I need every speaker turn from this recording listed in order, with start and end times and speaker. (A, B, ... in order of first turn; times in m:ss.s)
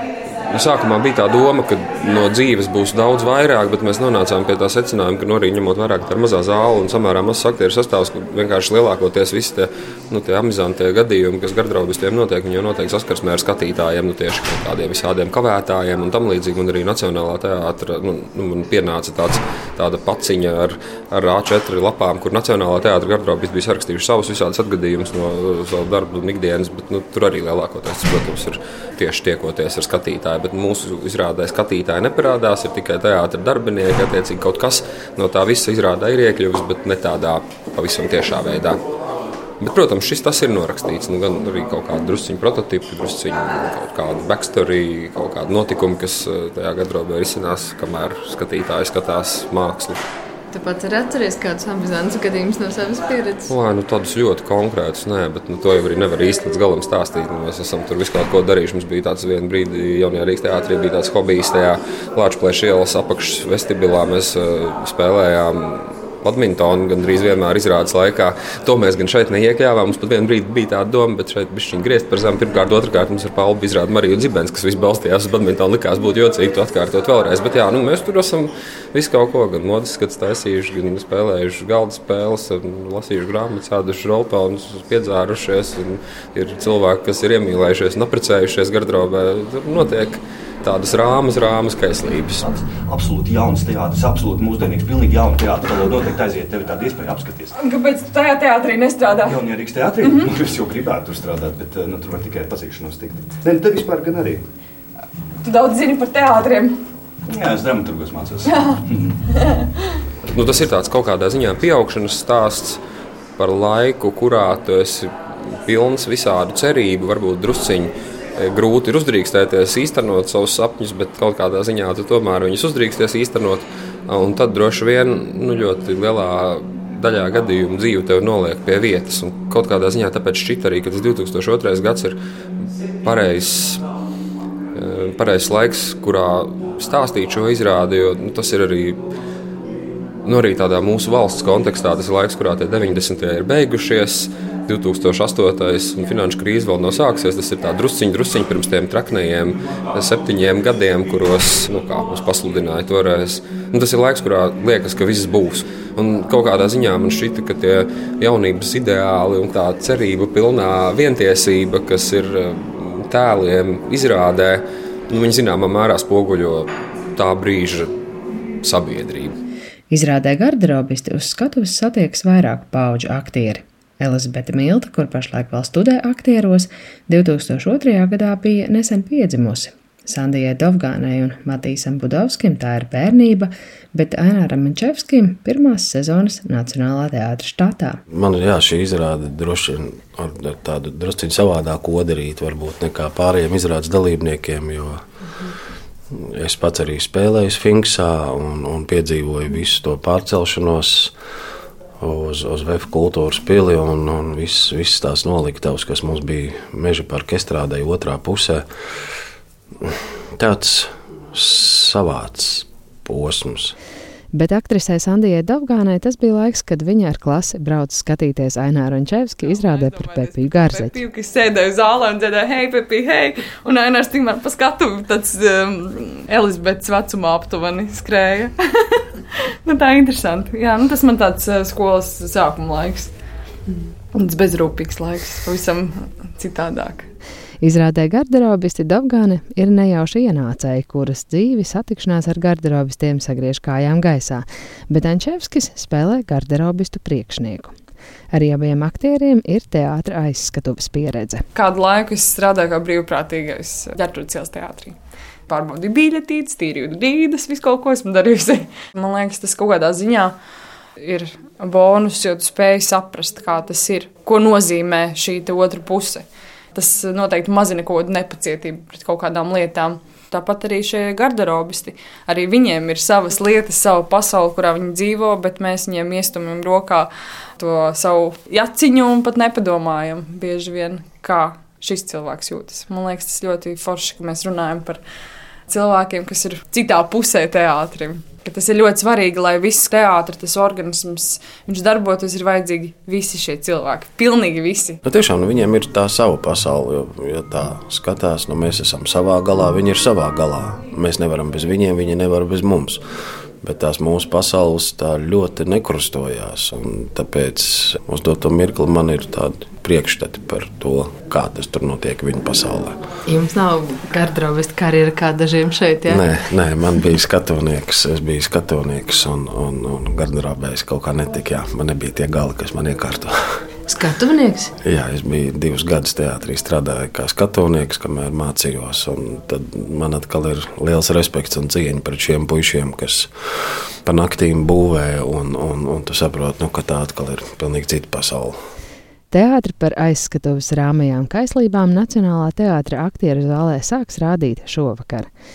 0:00.5-0:38.8 A
0:39.6-0:50.0 A
0:50.5-0:53.5 B
0:53.5-1:32.5 A
1:32.4-1:37.5 C
1:37.6-1:39.4 D
1:39.2-1:44.4 C
1:40.0-1:40.3 D
1:45.4-1:46.8 D
1:47.3-1:49.2 C
1:48.4-1:49.8 D
1:50.3-1:52.8 A
1:53.4-2:12.2 A
2:13.0-2:13.8 A
2:14.8-2:19.0 A
2:20.2-2:47.9 A
2:48.6-2:49.4 A
2:49.9-3:08.0 E
3:08.1-3:15.0 F
3:16.1-3:21.1 F
3:22.0-3:28.6 F
3:29.8-3:33.8 F
3:34.3-3:41.0 E
3:39.4-3:49.0 D
3:49.6-3:53.1 D
3:54.1-3:57.1 D
3:57.6-4:07.7 E
4:08.3-4:11.4 E
4:11.6-4:15.0 D
4:15.5-4:20.4 D
4:21.0-4:45.0 D
4:45.7-4:55.0 D
4:55.0-5:03.0 F
5:03.6-5:13.0 F
5:13.3-5:16.2 B
5:16.1-5:23.3 F
5:23.9-5:24.7 B
5:24.8-5:33.3 F
5:34.0-5:38.6 F
5:39.3-5:45.3 E